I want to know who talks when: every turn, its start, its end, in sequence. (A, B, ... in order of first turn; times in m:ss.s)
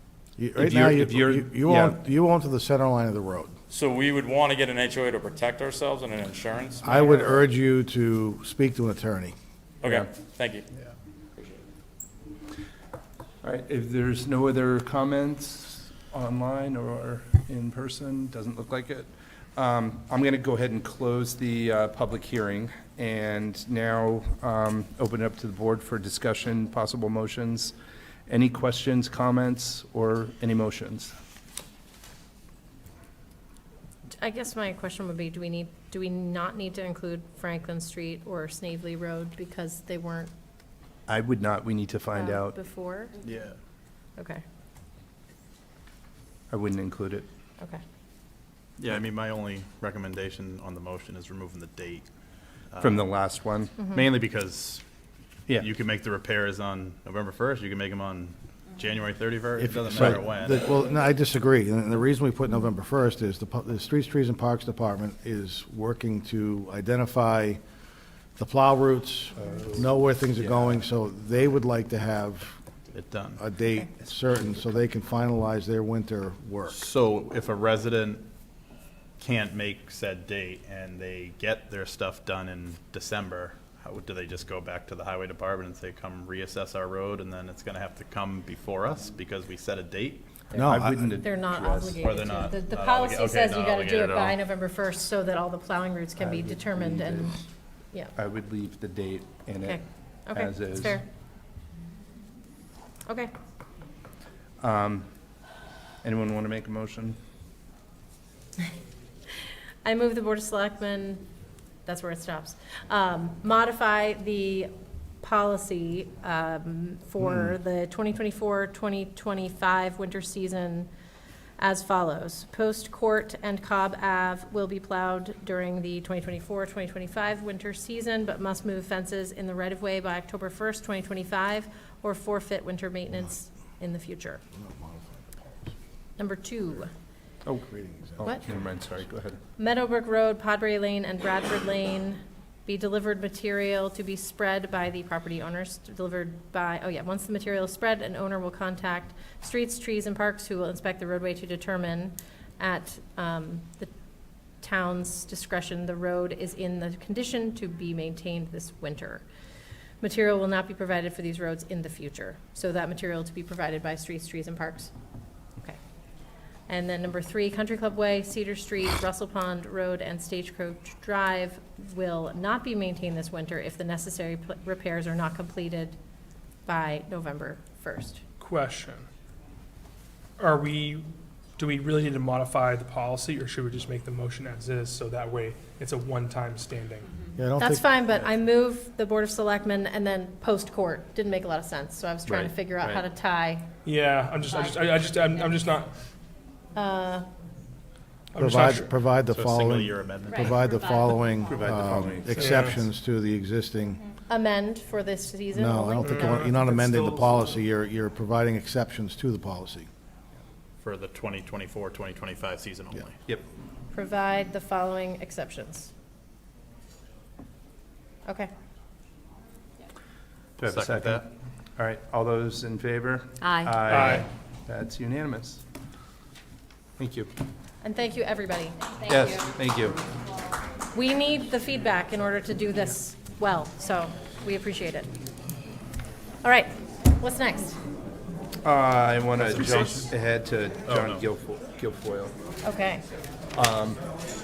0:00.4-0:03.5 A
0:00.6-0:02.0 B
0:03.7-0:06.9 C
0:06.8-0:09.3 A
0:09.8-0:10.6 C
0:13.4-0:27.7 B
0:28.3-0:31.1 B
0:34.2-0:40.3 D
0:41.1-0:42.6 B
0:42.1-0:43.2 D
0:43.2-0:43.6 E
0:44.2-0:44.4 D
0:46.5-0:47.2 B
0:48.8-0:52.1 E
0:52.7-0:53.1 E
0:52.8-0:53.8 B
0:53.8-0:54.8 E
0:55.5-1:00.6 E
0:59.6-1:07.6 A
0:59.9-1:00.2 B
1:08.4-1:12.6 A
1:09.4-1:10.8 B
1:12.9-1:13.4 E
1:13.4-1:16.8 A
1:16.7-1:18.3 E
1:19.2-1:30.3 E
1:30.5-1:31.2 A
1:30.6-1:32.0 B
1:31.2-1:37.4 D
1:32.0-1:34.4 E
1:36.2-1:37.3 B
1:38.1-1:41.0 B
1:39.6-1:41.0 D
1:44.6-1:45.1 B
1:46.0-1:47.2 B
1:49.8-1:51.3 D
1:51.8-1:54.7 D
1:55.2-2:00.9 D
2:01.6-2:14.4 D
2:14.5-2:15.7 A
2:16.2-2:16.9 D
2:17.4-2:19.4 B
2:17.7-2:18.8 A
2:19.6-2:33.9 D
2:34.6-2:39.2 D
2:40.0-2:44.9 D
2:46.7-2:56.0 D
2:56.6-2:58.2 D
2:58.4-2:59.0 F
3:00.4-3:01.0 F
3:01.6-3:07.1 F
3:07.4-3:07.9 A
3:07.6-3:13.6 D
3:12.3-3:13.0 B
3:13.8-3:15.9 F
3:16.7-3:17.3 D
3:18.3-3:18.9 F
3:18.4-3:24.0 A
3:19.3-3:20.7 E
3:21.4-3:22.4 B
3:22.3-3:22.8 F
3:24.3-3:26.5 D
3:25.5-3:29.9 A
3:26.0-3:27.5 F
3:30.8-3:33.2 E
3:33.9-3:35.9 D
3:40.6-3:45.6 B
3:40.6-3:41.2 E
3:43.8-3:44.3 F
3:47.0-3:47.3 B
3:47.8-3:48.8 D
3:49.0-3:50.0 B
3:50.9-3:55.1 D
3:56.4-3:57.8 D
3:58.6-4:02.3 B
3:59.6-4:00.0 E
4:00.8-4:01.2 E
4:02.6-4:03.0 D
4:03.5-4:04.0 B